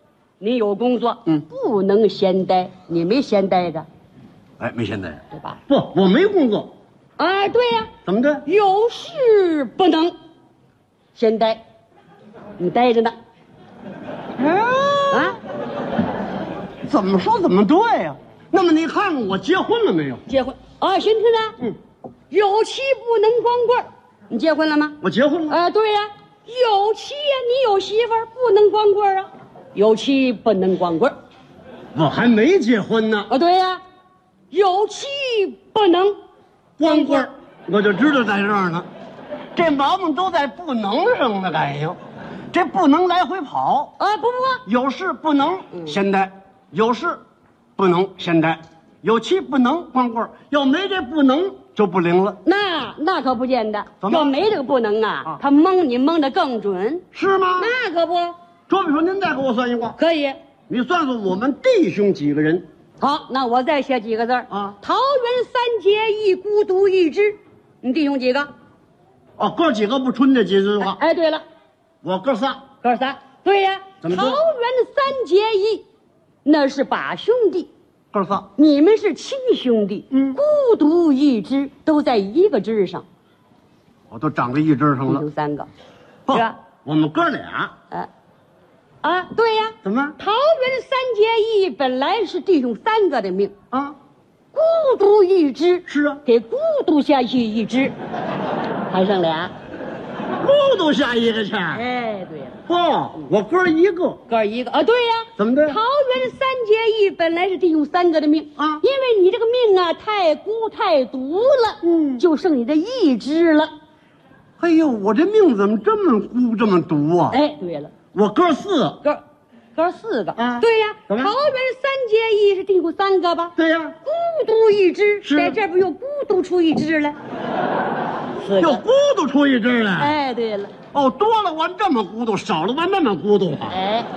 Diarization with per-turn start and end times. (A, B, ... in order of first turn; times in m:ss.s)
0:00.4-0:03.9 A
0:04.6-0:06.7 B
0:05.3-0:05.6 A
0:07.2-0:07.9 A
0:08.1-0:08.5 B
0:08.5-0:10.1 A
0:11.2-0:11.6 A
0:12.6-0:13.2 A
0:14.4-0:15.3 B
0:15.1-0:15.4 A
0:16.9-0:20.2 B
0:20.3-0:21.6 A
0:22.3-0:25.0 A
0:25.0-0:25.6 B
0:25.5-0:31.1 A
0:31.9-0:33.3 B
0:33.3-0:33.8 A
0:34.5-0:36.2 A
0:36.8-0:38.9 B
0:36.8-0:37.3 A
0:39.5-0:42.0 B
0:42.5-0:43.9 B
0:44.0-0:44.6 A
0:44.7-0:47.2 B
0:47.8-0:52.4 B
0:52.4-0:57.0 A
0:54.0-0:54.4 B
0:57.1-0:57.7 B
0:57.6-0:58.4 A
0:58.7-1:00.0 B
1:00.0-1:00.4 A
1:00.7-1:02.7 B
1:03.0-1:08.5 A
1:09.4-1:11.0 B
1:10.8-1:11.4 A
1:12.0-1:12.6 B
1:12.8-1:15.9 A
1:14.0-1:14.4 B
1:16.4-1:17.7 A
1:18.1-1:18.5 B
1:18.6-1:23.0 A
1:20.1-1:20.4 B
1:24.1-1:25.3 B
1:25.0-1:25.7 A
1:26.3-1:27.7 B
1:26.3-1:26.6 A
1:29.0-1:33.5 A
1:29.8-1:30.2 B
1:34.5-1:37.9 A
1:35.9-1:36.2 B
1:38.9-1:39.5 A
1:40.4-1:41.8 B
1:41.7-1:42.6 A
1:42.7-1:44.2 B
1:44.3-1:53.7 A
1:45.4-1:45.8 B
1:48.6-1:48.8 B
1:51.8-1:52.2 B
1:54.6-1:57.4 B
1:57.3-1:57.9 A
1:58.1-1:59.0 B
1:59.8-2:03.5 A
2:00.4-2:01.3 B
2:03.6-2:04.0 B
2:04.0-2:07.2 A
2:05.2-2:05.6 B
2:08.4-2:08.8 A
2:08.6-2:10.2 B
2:10.0-2:10.7 A
2:10.9-2:13.8 B
2:13.7-2:14.1 A